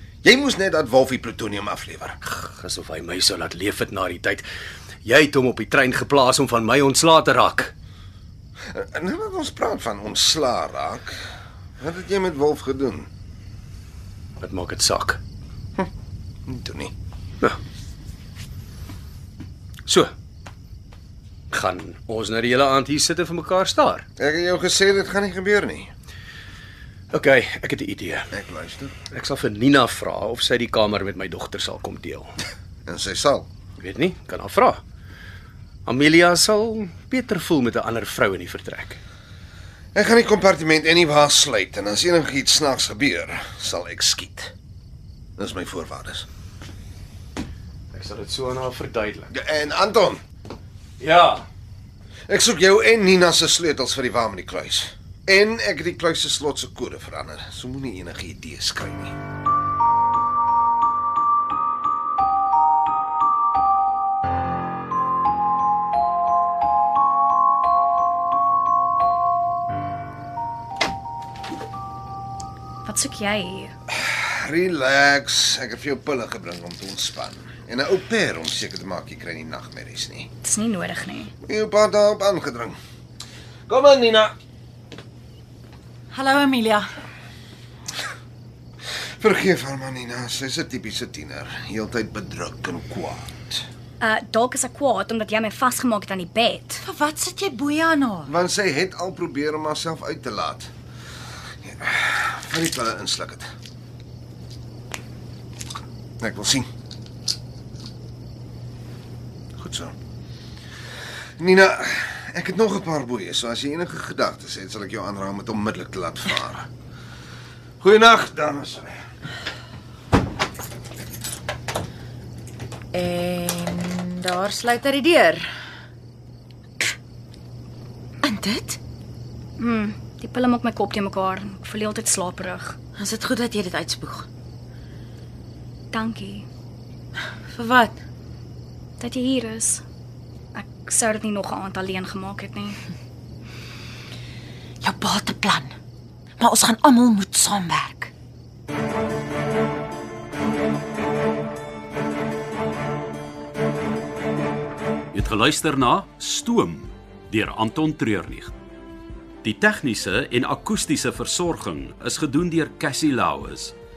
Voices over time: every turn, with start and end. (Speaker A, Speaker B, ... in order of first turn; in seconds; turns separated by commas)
Speaker A: 0.2-2.2, Speaker B: 2.2-4.5, Speaker B: 5.0-7.7, Speaker A: 8.7-11.2, Speaker A: 11.8-13.1, Speaker B: 14.4-15.2, Speaker A: 16.5-16.9, Speaker B: 19.9-20.1, Speaker B: 21.5-24.1, Speaker A: 24.2-25.9, Speaker B: 27.1-28.3, Speaker A: 28.3-29.0, Speaker B: 29.1-32.3, Speaker A: 32.9-33.5, Speaker B: 33.8-34.8, Speaker B: 35.9-39.0, Speaker A: 39.9-44.5, Speaker A: 45.4-46.2, Speaker B: 47.9-49.3, Speaker A: 49.3-50.2, Speaker B: 51.0-51.5, Speaker A: 52.3-59.1, Speaker C: 72.8-73.7, Speaker A: 73.9-80.3, Speaker C: 80.4-81.3, Speaker A: 81.4-82.8, Speaker A: 83.7-84.3, Speaker D: 86.1-86.8, Speaker A: 89.2-93.6, Speaker C: 94.0-96.8, Speaker D: 96.8-98.3, Speaker A: 98.3-100.7, Speaker A: 101.6-103.5, Speaker A: 106.2-106.7, Speaker A: 109.6-109.9, Speaker A: 111.4-116.7, Speaker A: 117.8-119.0, Speaker D: 122.9-125.5, Speaker D: 128.2-128.8, Speaker C: 129.6-132.8, Speaker D: 133.0-134.3, Speaker C: 135.9-136.5, Speaker D: 137.5-138.0, Speaker C: 139.0-139.8, Speaker C: 140.5-142.8, Speaker D: 144.8-145.7, Speaker D: 146.4-148.1, Speaker E: 155.1-156.3, Speaker E: 157.3-158.5, Speaker E: 159.4-160.7, Speaker E: 161.4-163.7